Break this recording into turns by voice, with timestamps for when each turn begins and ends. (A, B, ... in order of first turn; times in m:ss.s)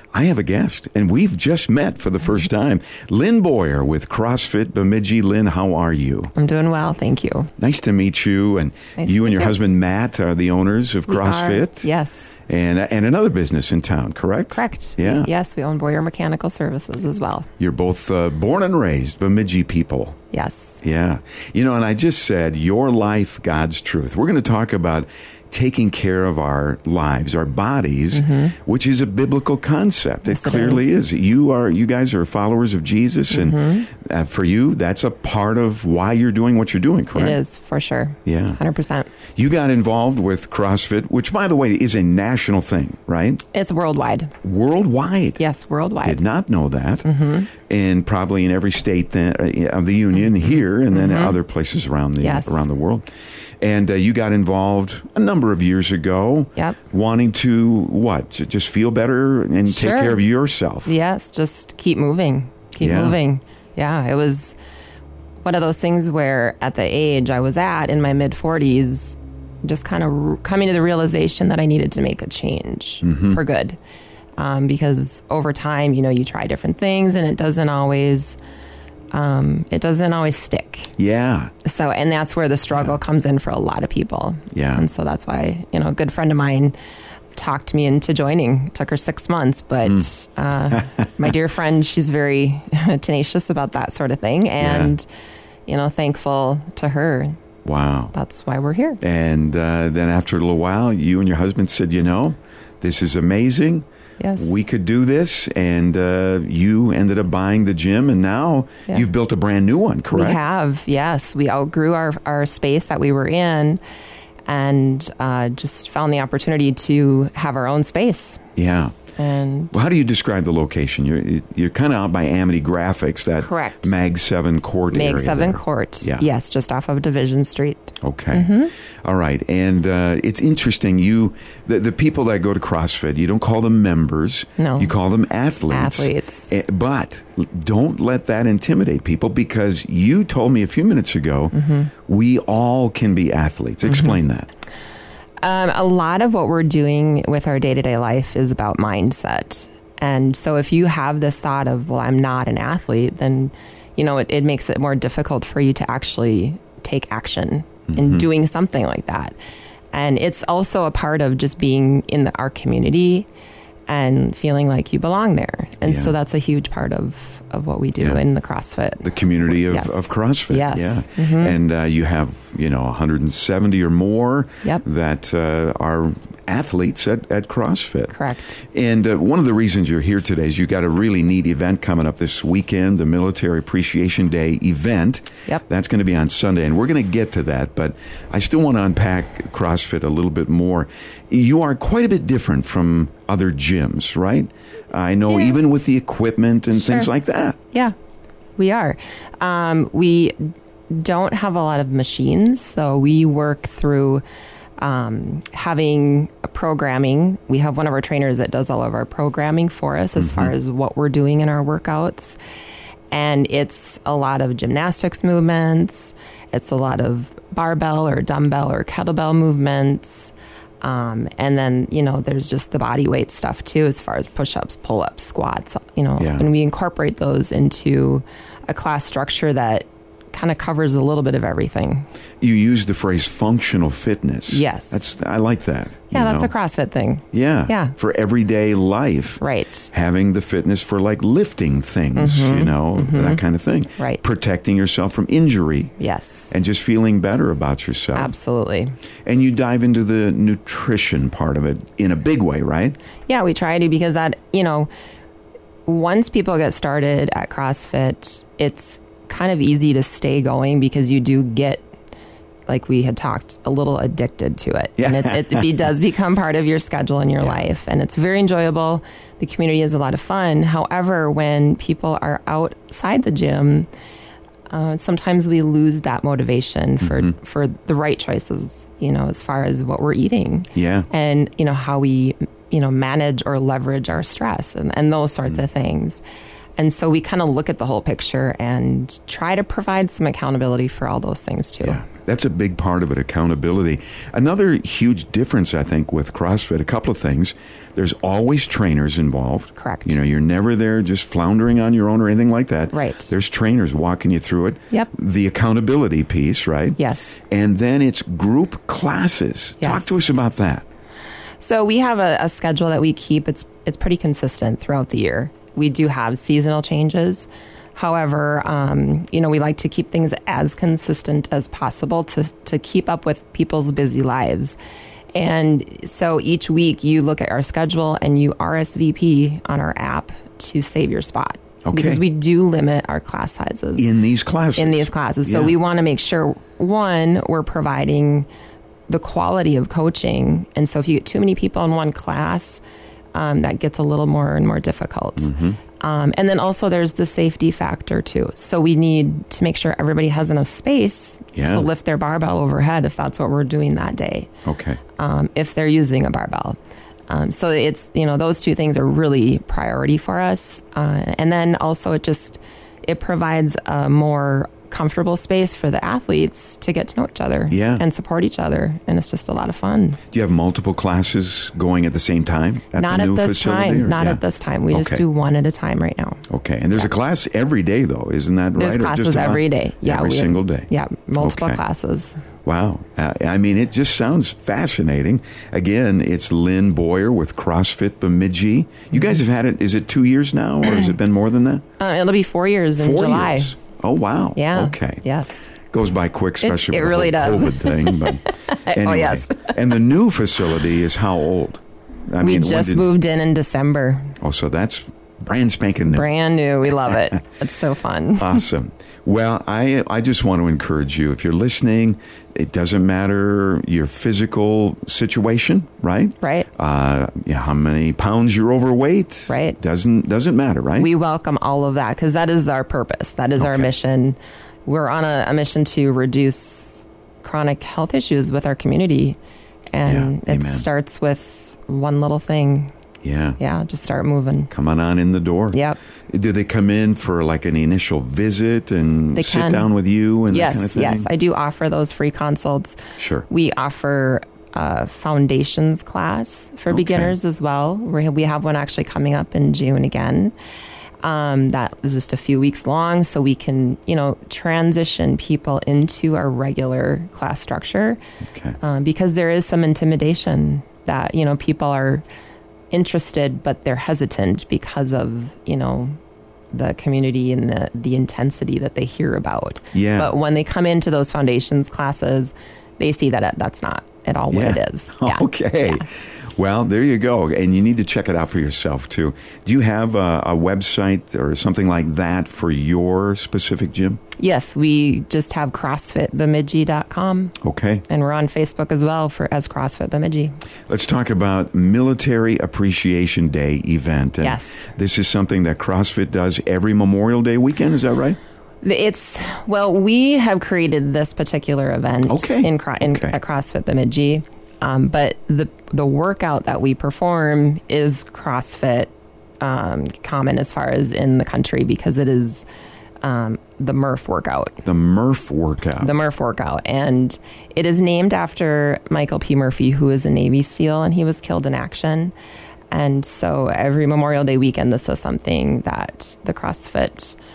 0:00.1-0:06.3 A
0:06.4-0:07.5 B
0:07.6-0:11.9 A
0:09.0-0:09.6 B
0:11.1-0:12.4 B
0:12.5-0:15.3 A
0:14.5-0:17.5 B
0:17.6-0:20.2 A
0:20.3-0:20.8 B
0:20.8-0:37.4 A
0:28.1-0:28.6 B
0:30.3-0:31.0 B
0:33.3-0:33.9 B
0:37.1-0:39.1 B
0:38.2-0:38.6 A
0:39.4-0:43.4 A
0:43.5-0:44.4 B
0:44.4-0:45.4 A
0:45.4-0:46.2 B
0:46.0-0:47.1 A
0:47.0-0:47.5 B
0:47.6-0:53.0 A
0:50.9-0:51.4 B
0:52.2-0:52.6 B
0:53.6-1:00.9 A
0:59.7-1:00.2 B
1:00.9-1:04.6 B
1:02.8-1:03.2 A
1:05.4-1:13.8 B
1:13.0-1:13.4 A
1:14.4-1:18.4 B
1:19.1-1:20.9 B
1:21.0-1:21.5 A
1:21.6-1:26.8 B
1:24.5-1:24.8 A
1:27.4-1:35.1 B
1:30.7-1:31.2 A
1:34.6-1:35.0 A
1:35.7-1:37.4 B
1:37.6-1:38.1 A
1:38.1-1:39.0 B
1:39.0-1:43.9 A
1:44.2-1:44.6 B
1:44.4-1:50.4 A
1:50.1-1:53.8 B
1:54.5-1:58.4 B
1:58.6-1:59.0 A
1:59.2-1:59.8 B
1:59.7-2:06.2 A
2:03.4-2:04.0 B
2:04.9-2:08.7 B
2:08.0-2:24.5 A
2:14.6-2:14.9 B
2:15.7-2:16.5 B
2:21.5-2:21.9 B
2:23.9-2:24.2 B
2:25.4-2:39.4 B
2:37.9-2:38.3 A
2:39.9-2:43.3 B
2:43.9-2:49.1 B
2:45.8-2:46.1 A
2:49.0-3:17.6 A
2:49.7-2:51.6 B
2:58.1-2:58.6 B
3:15.3-3:15.6 B
3:16.7-3:17.1 B
3:18.6-3:24.2 B
3:24.8-3:32.4 B
3:30.2-3:30.5 A
3:33.1-3:52.1 B
3:46.2-3:46.5 A
3:52.4-3:56.5 A
3:54.5-3:55.0 B
3:56.1-3:58.0 B
3:57.3-3:59.4 A
3:59.4-3:59.9 B
3:59.9-4:05.9 A
4:02.2-4:03.4 B
4:04.0-4:04.3 B
4:06.0-4:06.5 B
4:06.5-4:08.3 A
4:08.1-4:09.0 B
4:09.3-4:13.0 A
4:13.3-4:14.9 B
4:15.9-4:21.9 B
4:22.7-4:33.9 B
4:25.0-4:25.7 A
4:34.7-4:46.2 B
4:37.0-4:37.4 A
4:40.8-4:41.1 A
4:46.8-4:52.0 B
4:51.8-5:10.9 A
4:59.8-5:00.2 B
5:02.9-5:03.3 B
5:07.0-5:07.4 B
5:09.8-5:10.2 B
5:11.6-5:24.8 B
5:25.3-5:34.1 B
5:31.8-5:32.2 A
5:34.0-5:35.8 A
5:34.8-5:38.5 B
5:39.1-5:42.8 B
5:43.4-5:54.5 B
5:45.4-5:45.8 A
5:51.5-5:51.9 A
5:54.7-5:55.0 A
5:55.2-5:56.8 B
5:57.3-6:10.2 B
6:07.7-6:08.0 A
6:10.3-6:14.4 A
6:13.0-6:16.5 B
6:14.9-6:15.2 A
6:16.5-6:20.9 A
6:18.8-6:22.4 B
6:21.4-6:21.8 A
6:22.6-6:31.8 A
6:32.0-6:33.7 B
6:33.0-6:35.2 A
6:34.6-6:35.7 B
6:35.8-6:43.1 A
6:36.6-6:39.7 B
6:42.4-6:44.4 B
6:44.4-6:46.3 A
6:46.1-6:48.6 B
6:48.4-7:01.1 A
6:56.4-6:56.7 B
6:59.5-6:59.8 B
7:01.0-7:09.4 B
7:03.6-7:03.9 A
7:09.9-7:12.9 B
7:10.1-7:10.9 A
7:13.2-7:13.6 A
7:13.6-7:14.7 B
7:14.7-7:21.3 A
7:15.7-7:16.0 B
7:19.4-7:19.9 B
7:20.5-7:23.0 B
7:23.2-7:23.5 A
7:23.5-7:30.6 B
7:26.9-7:27.3 A
7:31.2-7:38.2 B
7:38.8-7:42.2 B
7:42.9-7:46.1 B
7:46.7-7:56.1 B
7:49.9-7:50.3 A
7:54.5-8:04.2 A
8:04.4-8:07.6 B
8:07.6-8:08.0 A
8:08.1-8:10.5 B
8:10.9-8:18.4 A
8:14.4-8:14.8 B
8:18.8-8:32.7 B
8:22.2-8:23.4 A
8:33.2-8:34.8 B
8:34.8-8:36.1 A
8:36.0-8:42.3 B
8:42.9-8:47.4 B